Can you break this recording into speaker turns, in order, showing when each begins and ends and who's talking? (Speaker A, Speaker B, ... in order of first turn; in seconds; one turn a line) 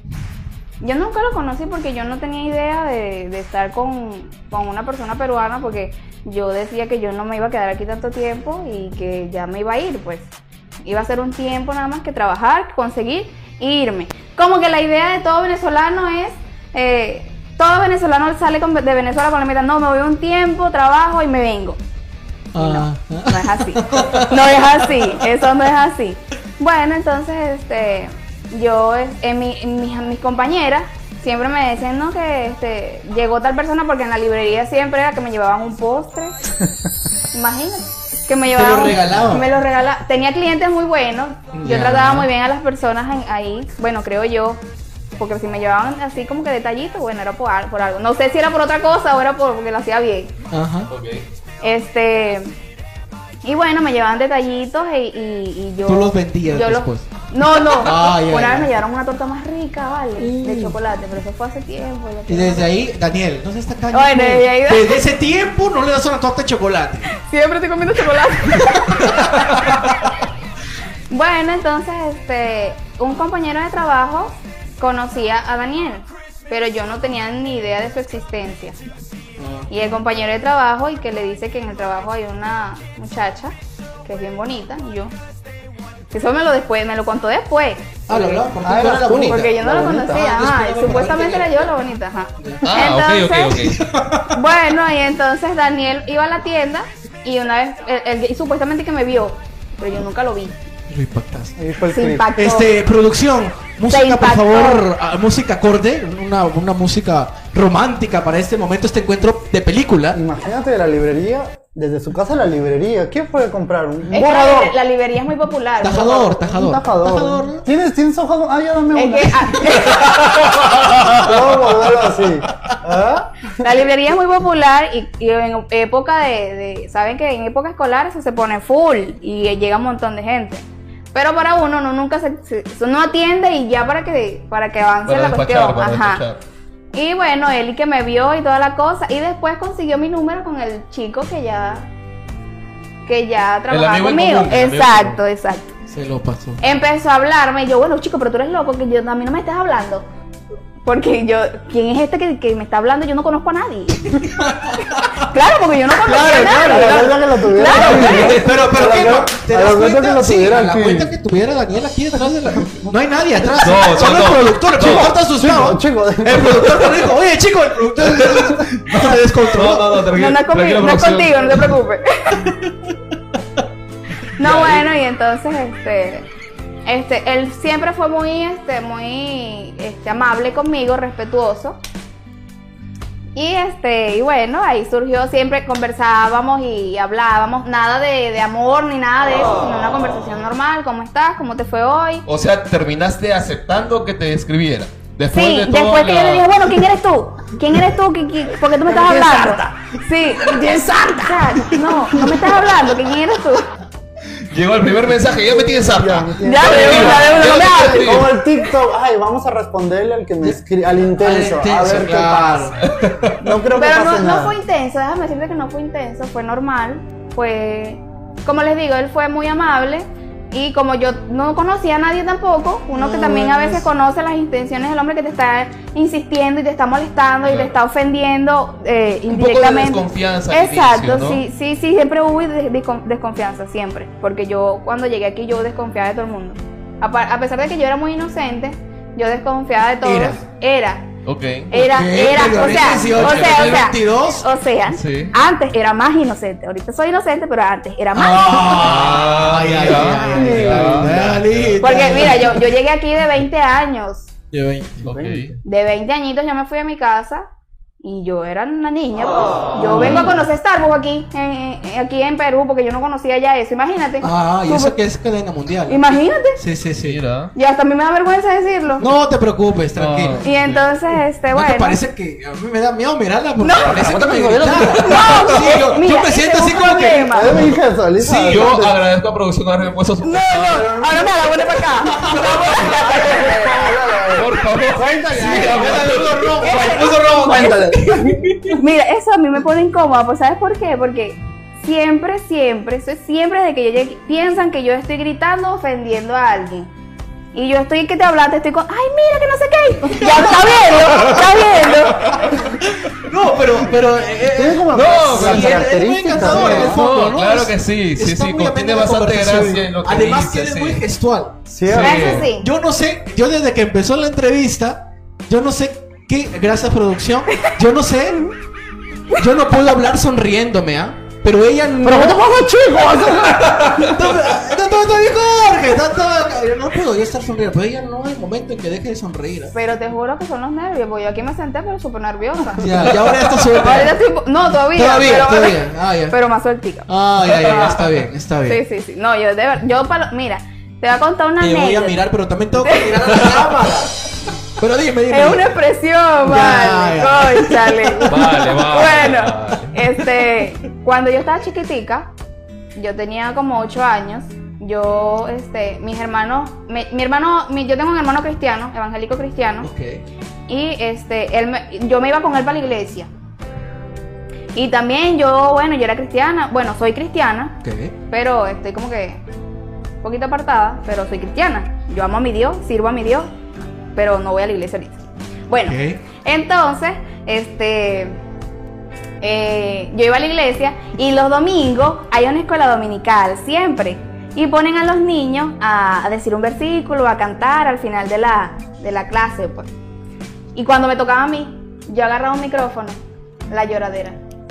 Speaker A: 0.8-10.3
Speaker A: 10.8-21.8
Speaker B: 22.5-24.8
Speaker A: 22.6-36.4
Speaker A: 37.3-44.6
Speaker B: 38.5-39.5
Speaker B: 41.5-42.3
Speaker A: 45.2-50.3
Speaker B: 50.5-50.9
Speaker C: 50.9-51.2
Speaker A: 51.6-52.5
Speaker A: 53.4-62.7
Speaker B: 55.9-57.1
Speaker B: 57.8-58.7
Speaker B: 60.2-60.8
Speaker B: 62.3-67.1
Speaker A: 63.9-65.0
Speaker A: 67.1-69.3
Speaker B: 68.5-70.0
Speaker A: 71.1-78.8
Speaker B: 79.4-79.7
Speaker A: 79.7-85.1
Speaker A: 86.1-88.5
Speaker B: 88.1-89.5
Speaker D: 88.6-90.4
Speaker A: 89.3-93.7
Speaker B: 90.0-91.8
Speaker B: 92.4-92.7
Speaker C: 92.6-93.8
Speaker B: 93.7-94.4
Speaker A: 94.3-100.6
Speaker B: 100.9-101.6
Speaker D: 101.6-102.3
Speaker A: 101.9-102.8
Speaker B: 102.4-110.2
Speaker A: 103.9-104.8
Speaker D: 110.1-114.8
Speaker A: 114.1-116.4
Speaker B: 115.8-117.7
Speaker D: 116.4-120.1
Speaker A: 119.0-120.6
Speaker C: 119.9-121.4
Speaker D: 120.7-123.7
Speaker A: 123.6-136.2
Speaker C: 135.1-136.4
Speaker A: 136.9-141.9
Speaker A: 143.1-145.7
Speaker C: 143.7-145.2
Speaker B: 145.9-146.6
Speaker A: 146.6-150.1
Speaker A: 150.8-154.4
Speaker B: 154.1-155.3
Speaker A: 155.2-158.6
Speaker B: 156.0-170.0
Speaker D: 156.5-161.2
Speaker C: 157.7-158.6
Speaker C: 163.6-165.2
Speaker D: 165.4-166.6
Speaker C: 168.1-171.8
Speaker A: 170.1-172.5
Speaker B: 172.4-172.7
Speaker A: 174.4-176.3
Speaker C: 174.4-174.9
Speaker A: 176.9-181.8
Speaker A: 183.3-192.2
Speaker C: 192.3-196.5
Speaker A: 195.3-203.7
Speaker D: 198.8-201.7
Speaker D: 202.2-202.5
Speaker C: 204.5-208.3
Speaker D: 204.9-212.7
Speaker A: 206.4-208.3
Speaker B: 210.4-212.9
Speaker C: 212.8-213.4
Speaker D: 213.4-214.6
Speaker A: 213.7-241.1
Speaker D: 223.0-223.8
Speaker C: 227.4-227.8
Speaker C: 229.3-231.4
Speaker B: 240.0-240.4
Speaker C: 241.3-243.9
Speaker A: 241.7-249.0
Speaker B: 241.8-244.5
Speaker C: 244.9-245.3
Speaker B: 248.1-252.6
Speaker C: 248.7-251.8
Speaker A: 250.2-250.5
Speaker D: 250.2-251.2
Speaker A: 251.8-254.3
Speaker D: 252.0-252.3
Speaker B: 254.5-255.5
Speaker C: 255.1-255.5
Speaker D: 255.1-255.5
Speaker A: 255.6-257.5
Speaker A: 258.0-265.0
Speaker D: 259.8-260.3
Speaker B: 259.9-260.4
Speaker B: 264.2-266.0
Speaker A: 265.9-266.6
Speaker B: 266.6-267.2
Speaker C: 267.0-267.5
Speaker A: 267.6-269.1
Speaker B: 269.0-270.4
Speaker C: 269.9-270.9
Speaker A: 270.4-272.0
Speaker B: 271.5-278.8
Speaker A: 273.6-274.1
Speaker D: 273.8-275.5
Speaker C: 274.8-275.4
Speaker A: 275.0-277.6
Speaker D: 277.3-279.0
Speaker C: 278.5-280.7
Speaker A: 280.2-283.9
Speaker D: 280.5-281.5
Speaker B: 282.1-282.9
Speaker C: 282.2-283.5
Speaker D: 282.8-288.5
Speaker C: 284.3-286.5
Speaker B: 285.4-288.8
Speaker A: 286.6-287.9
Speaker A: 288.7-296.9
Speaker A: 297.5-302.6
Speaker B: 300.2-301.4
Speaker C: 301.0-302.5
Speaker B: 302.5-318.5
Speaker D: 304.5-307.0
Speaker C: 304.9-311.0
Speaker D: 311.7-312.5
Speaker C: 311.9-312.5
Speaker A: 312.0-312.7
Speaker B: 319.3-322.5
Speaker D: 322.0-324.1
Speaker B: 323.5-329.8
Speaker A: 329.7-333.1
Speaker B: 332.8-334.2
Speaker A: 333.7-337.1
Speaker B: 334.9-336.4
Speaker B: 337.1-338.8
Speaker A: 337.6-338.0
Speaker A: 338.7-342.3
Speaker B: 341.6-345.7
Speaker A: 342.8-343.7
Speaker A: 345.3-352.3
Speaker B: 346.4-348.8
Speaker C: 348.3-350.0
Speaker A: 353.0-359.9
Speaker B: 359.8-360.2
Speaker A: 360.7-363.3
Speaker A: 364.8-367.8
Speaker B: 367.8-368.1
Speaker A: 368.3-369.4
Speaker A: 370.2-373.5
Speaker A: 374.1-378.4
Speaker B: 375.8-376.2
Speaker A: 379.4-389.9
Speaker A: 390.8-394.4